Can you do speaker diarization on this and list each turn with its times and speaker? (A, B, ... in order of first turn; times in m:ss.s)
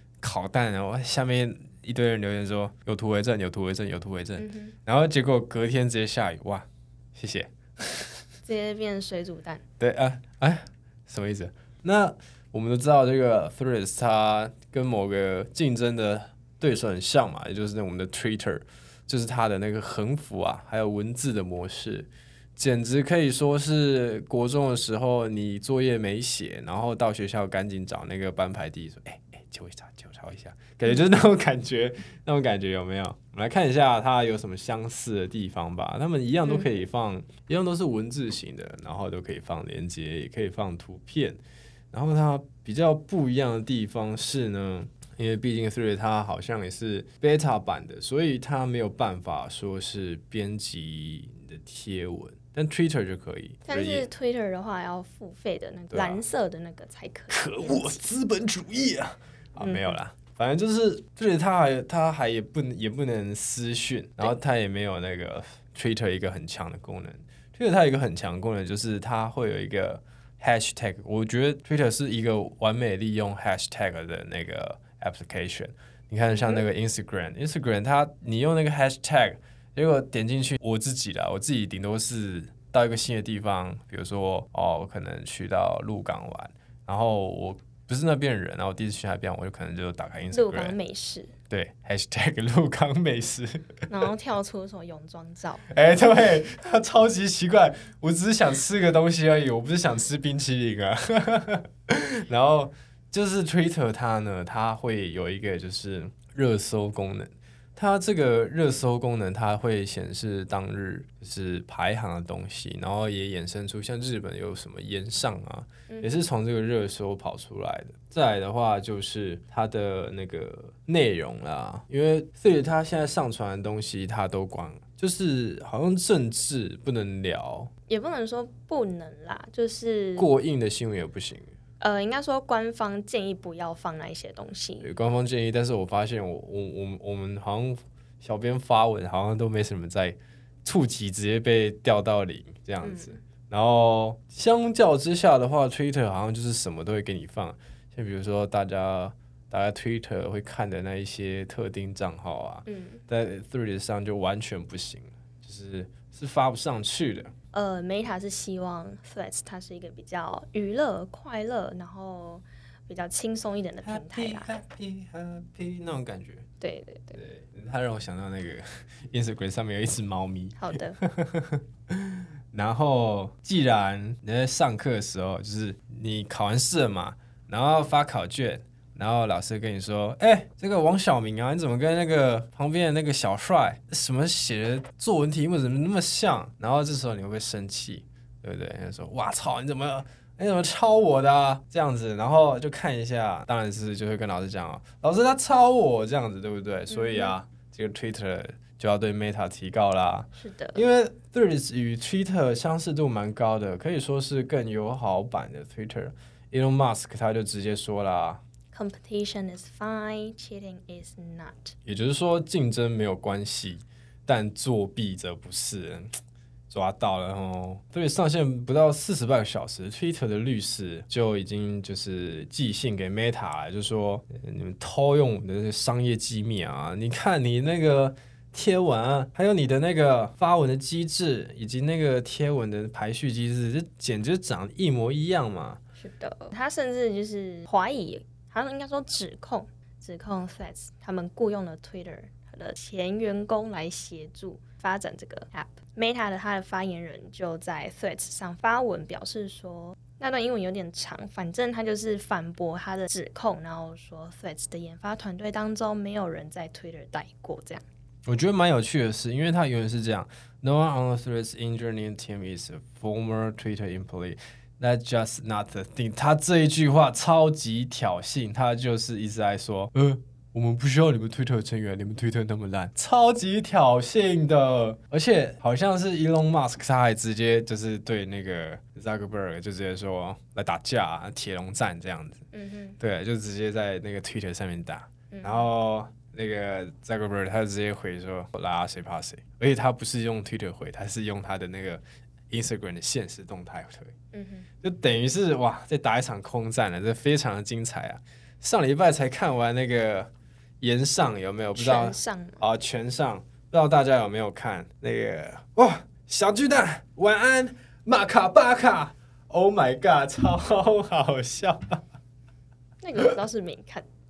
0:00.2-0:08.2 A
0:04.4-0:04.8 B
0:08.4-0:09.6 B
0:09.8-0:41.4 A
0:41.9-0:54.1 A
0:53.7-0:58.0 B
0:55.9-0:56.2 A
0:57.3-1:30.8 A
0:59.6-1:00.0 B
1:16.3-1:16.6 B
1:30.3-1:31.3 B
1:31.5-1:33.9 A
1:33.9-1:35.7 B
1:35.7-2:07.7 A
2:07.9-2:10.3 B
2:10.2-2:11.5 A
2:11.8-2:14.9 B
2:14.8-2:37.3 A
2:22.8-2:23.2 B
2:32.7-2:33.0 B
2:37.5-2:44.5 B
2:43.8-2:46.5 A
2:46.6-2:47.2 B
2:47.1-3:28.4 A
2:50.6-2:51.0 B
3:16.9-3:17.4 B
3:20.4-3:20.8 B
3:28.7-3:31.8 B
3:31.9-3:36.2 A
3:36.7-3:55.8 A
3:56.0-4:17.8 B
4:18.3-4:42.4 A
4:42.5-4:43.0 B
4:43.0-4:54.1 A
4:45.3-4:45.7 B
4:54.3-4:54.7 B
4:54.8-5:00.3 A
5:00.8-5:12.0 A
5:01.8-5:02.6 B
5:13.0-5:14.1 B